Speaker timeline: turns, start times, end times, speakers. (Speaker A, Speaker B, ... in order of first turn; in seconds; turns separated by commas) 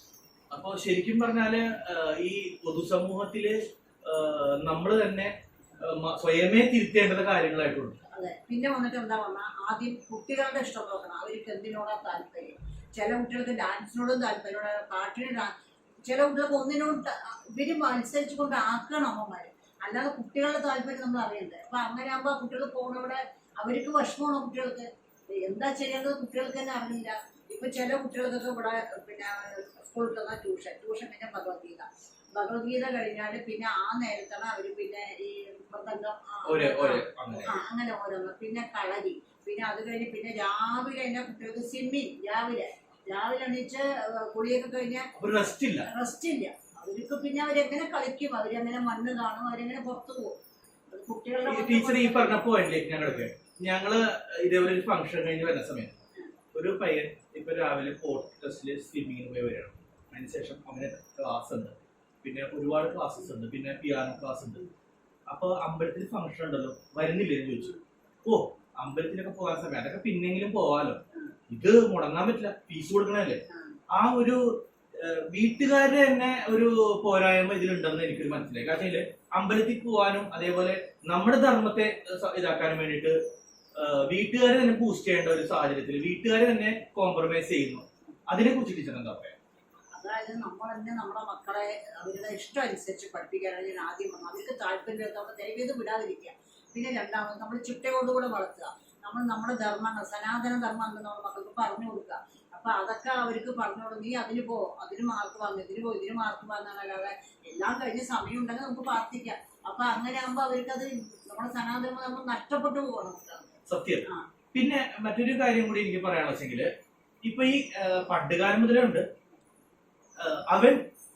Speaker A: 0.5-8.0, Speaker B: 8.1-15.5, Speaker B: 16.1-45.1, Speaker A: 36.5-37.5, Speaker A: 45.2-45.9, Speaker B: 45.9-50.4, Speaker B: 50.9-52.5, Speaker A: 51.5-56.0, Speaker A: 56.5-64.6, Speaker A: 65.3-67.7, Speaker A: 68.2-73.4, Speaker B: 73.5-73.8, Speaker A: 73.9-74.4, Speaker A: 75.0-83.2, Speaker A: 83.8-89.4, Speaker B: 90.0-113.5, Speaker A: 113.7-116.7, Speaker A: 117.2-119.0, Speaker A: 120.2-120.8